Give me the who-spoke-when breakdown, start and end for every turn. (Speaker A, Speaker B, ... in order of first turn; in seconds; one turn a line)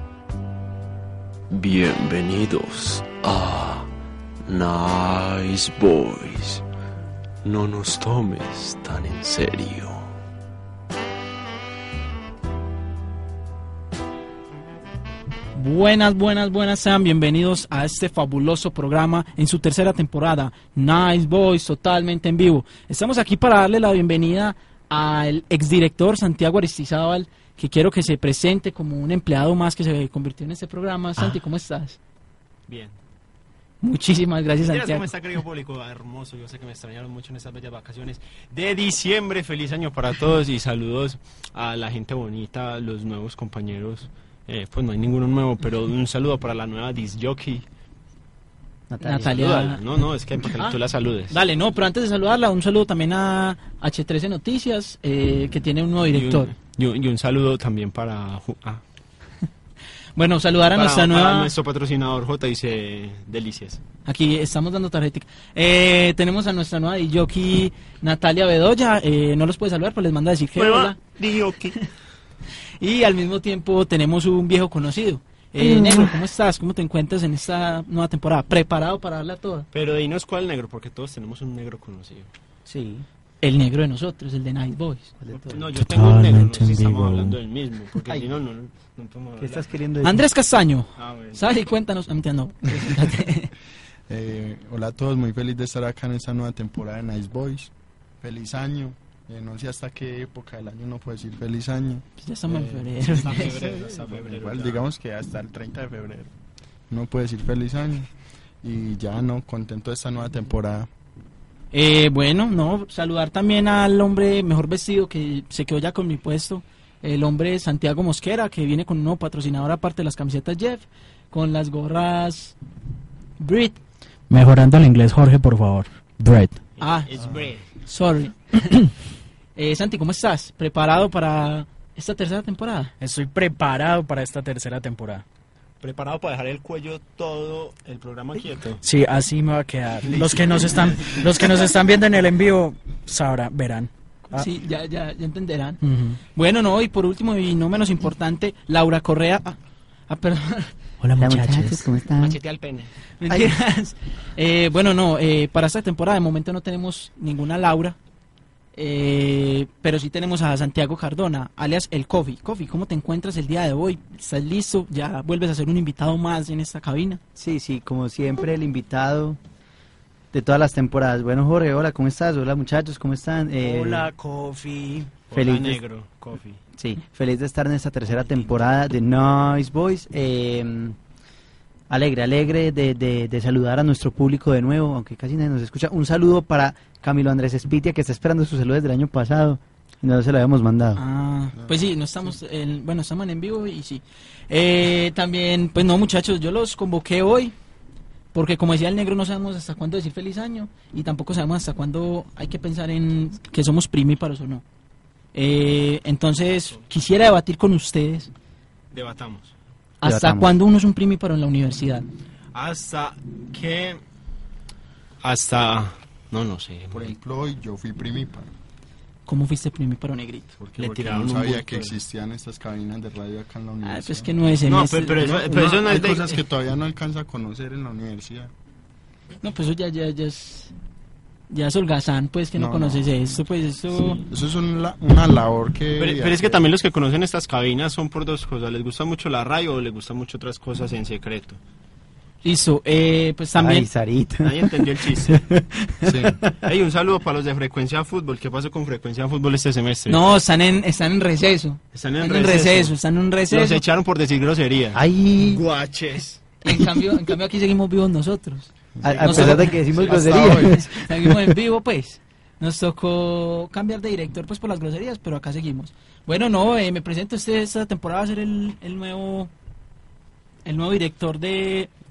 Speaker A: 1.5-3.9
Speaker A: 4.4-6.6
Speaker A: 7.4-10.1
Speaker B: 15.5-32.0
Speaker C: 32.7-33.0
Speaker B: 33.8-35.1
Speaker C: 34.6-47.6
Speaker D: 48.9-49.4
Speaker B: 49.0-49.8
Speaker C: 49.2-51.4
Speaker B: 51.3-56.5
Speaker C: 56.1-58.8
Speaker B: 60.1-61.5
Speaker C: 60.7-63.8
Speaker B: 64.0-71.0
Speaker C: 70.6-71.7
Speaker B: 72.8-79.7
Speaker C: 79.7-82.3
Speaker D: 82.7-83.0
Speaker B: 83.4-85.1
Speaker D: 85.2-85.7
Speaker C: 85.3-89.8
Speaker E: 85.8-87.3
Speaker D: 89.4-90.2
Speaker B: 90.0-93.5
Speaker C: 91.0-91.4
Speaker F: 94.1-106.3
Speaker B: 102.2-103.5
Speaker C: 103.2-104.8
Speaker F: 106.9-108.1
Speaker F: 108.6-110.9
Speaker B: 111.7-122.5
Speaker B: 123.4-123.8
Speaker E: 124.3-126.6
Speaker C: 126.8-127.7
Speaker B: 126.8-127.1
Speaker B: 127.9-128.9
Speaker B: 129.6-132.9
Speaker E: 133.0-135.2
Speaker C: 135.8-138.8
Speaker E: 138.8-144.5
Speaker C: 140.1-141.2
Speaker B: 144.3-145.8
Speaker E: 145.8-146.2
Speaker B: 146.3-149.6
Speaker B: 150.1-150.7
Speaker E: 151.0-151.8
Speaker D: 151.2-152.4
Speaker C: 152.2-152.9
Speaker B: 153.2-157.9
Speaker B: 158.7-167.2
Speaker D: 167.3-169.4
Speaker D: 170.3-174.1
Speaker E: 173.6-175.1
Speaker C: 175.3-176.6
Speaker D: 175.3-175.8
Speaker D: 176.8-180.9
Speaker D: 181.9-191.0
Speaker B: 191.0-197.5
Speaker F: 191.6-191.9
Speaker B: 198.3-204.6
Speaker B: 205.3-208.3
Speaker C: 208.9-209.5
Speaker B: 210.0-212.1
Speaker D: 210.0-210.5
Speaker C: 212.5-214.0
Speaker C: 215.2-217.2
Speaker F: 216.9-218.5
Speaker B: 219.2-220.5
Speaker F: 220.6-224.3
Speaker C: 220.8-222.0
Speaker B: 223.8-225.2
Speaker C: 224.7-226.4
Speaker F: 225.2-228.5
Speaker B: 229.4-230.7
Speaker B: 231.5-234.2
Speaker F: 232.6-233.4
Speaker F: 234.2-236.6
Speaker C: 235.9-241.6
Speaker B: 242.4-243.9
Speaker D: 243.6-246.6
Speaker C: 244.4-245.4
Speaker F: 246.0-246.4
Speaker C: 246.6-250.3
Speaker B: 250.1-253.8
Speaker C: 251.9-252.9
Speaker C: 253.5-256.4
Speaker D: 254.9-255.6
Speaker B: 256.6-269.5
Speaker F: 259.0-260.6
Speaker D: 259.0-261.0
Speaker C: 259.9-260.4
Speaker B: 270.6-271.9